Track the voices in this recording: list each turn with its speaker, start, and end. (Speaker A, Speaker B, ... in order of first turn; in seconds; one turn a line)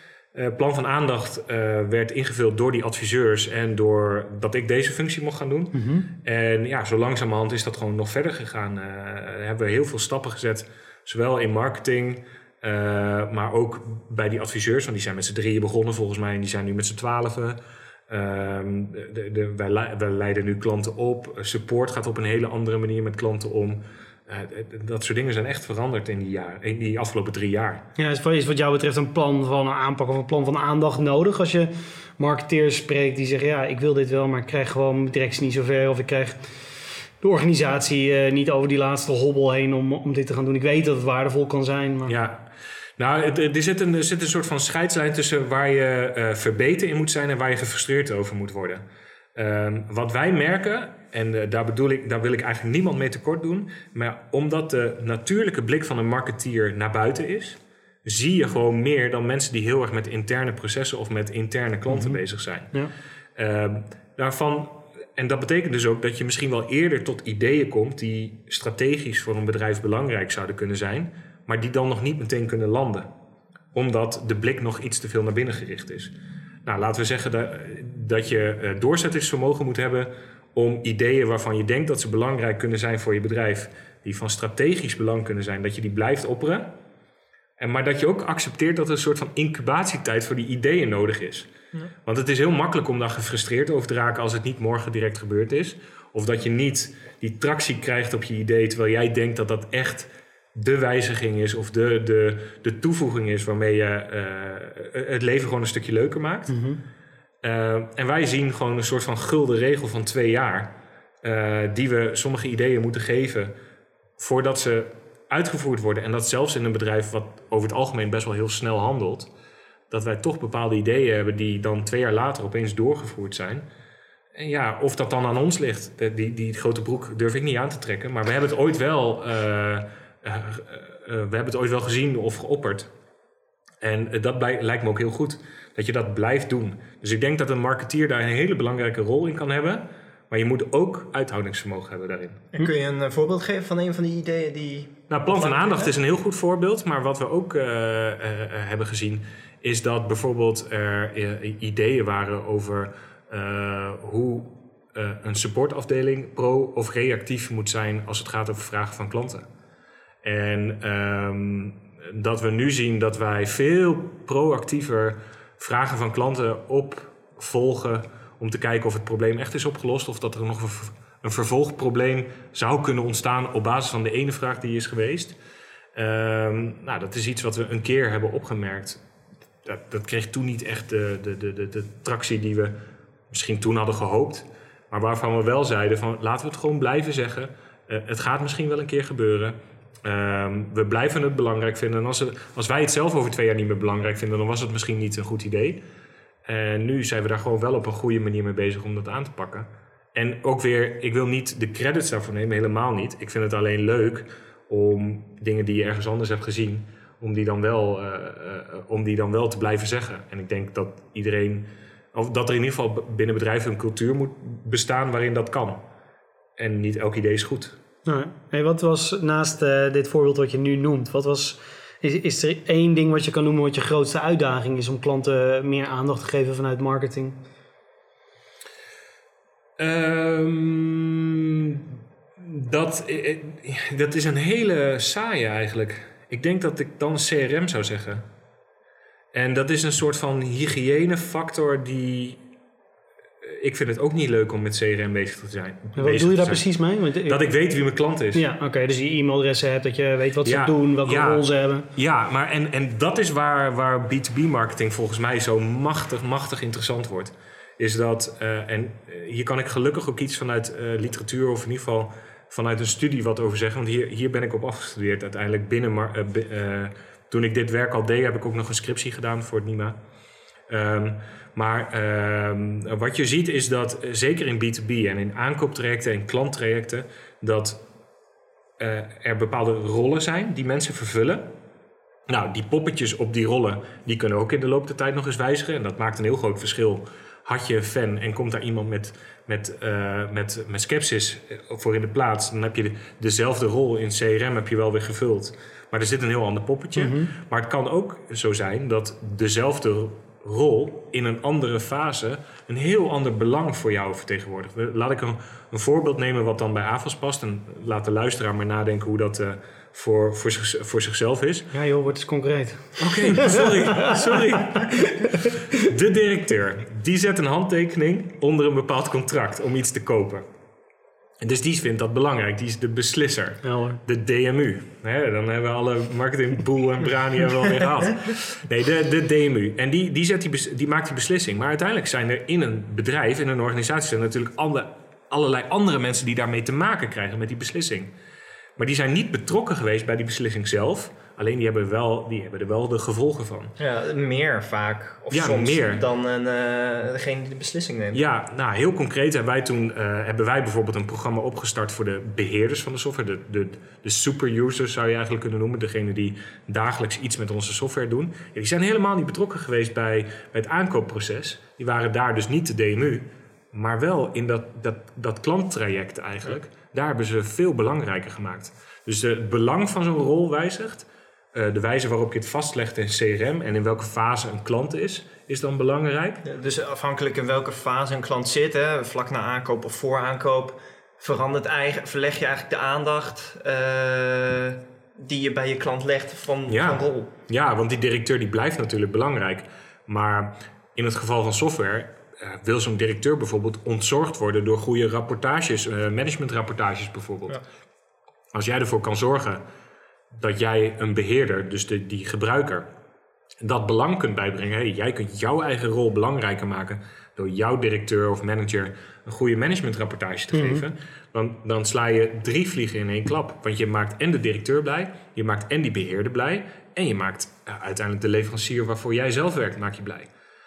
Speaker A: 0.3-27.9
Speaker B: 5.7-6.1
Speaker B: 28.0-36.5
Speaker B: 37.2-42.1
Speaker A: 42.1-48.8
Speaker A: 49.4-62.7
Speaker B: 61.9-62.2
Speaker A: 63.4-73.1
Speaker A: 73.7-76.1
Speaker A: 76.7-86.8
Speaker A: 87.6-91.5
Speaker A: 92.1-106.6
Speaker B: 106.5-106.8
Speaker A: 107.4-113.5
Speaker A: 114.2-119.3
Speaker A: 119.9-123.7
Speaker A: 124.3-132.9
Speaker A: 133.8-142.4
Speaker C: 142.5-145.9
Speaker A: 145.1-159.5
Speaker A: 160.2-175.4
Speaker A: 175.9-179.0
Speaker A: 179.6-182.8
Speaker A: 183.3-195.8
Speaker A: 196.5-215.8
Speaker A: 216.6-217.8
Speaker B: 218.1-227.4
Speaker A: 229.8-238.3
Speaker A: 239.3-242.4
Speaker A: 243.4-246.7
Speaker B: 246.0-247.4
Speaker A: 247.2-248.5
Speaker B: 248.3-251.9
Speaker A: 250.4-270.0
Speaker A: 270.7-277.8
Speaker A: 278.8-281.5
Speaker A: 282.3-311.7
Speaker B: 297.0-297.3
Speaker B: 311.7-314.4
Speaker A: 313.0-320.5
Speaker A: 321.4-338.1
Speaker B: 323.6-324.0
Speaker A: 338.8-343.8
Speaker C: 343.8-348.2
Speaker A: 345.3-346.0
Speaker A: 348.1-376.4
Speaker C: 376.4-387.3
Speaker A: 386.7-397.6
Speaker A: 398.5-399.6
Speaker A: 400.3-402.9
Speaker A: 403.6-420.3
Speaker B: 410.5-410.8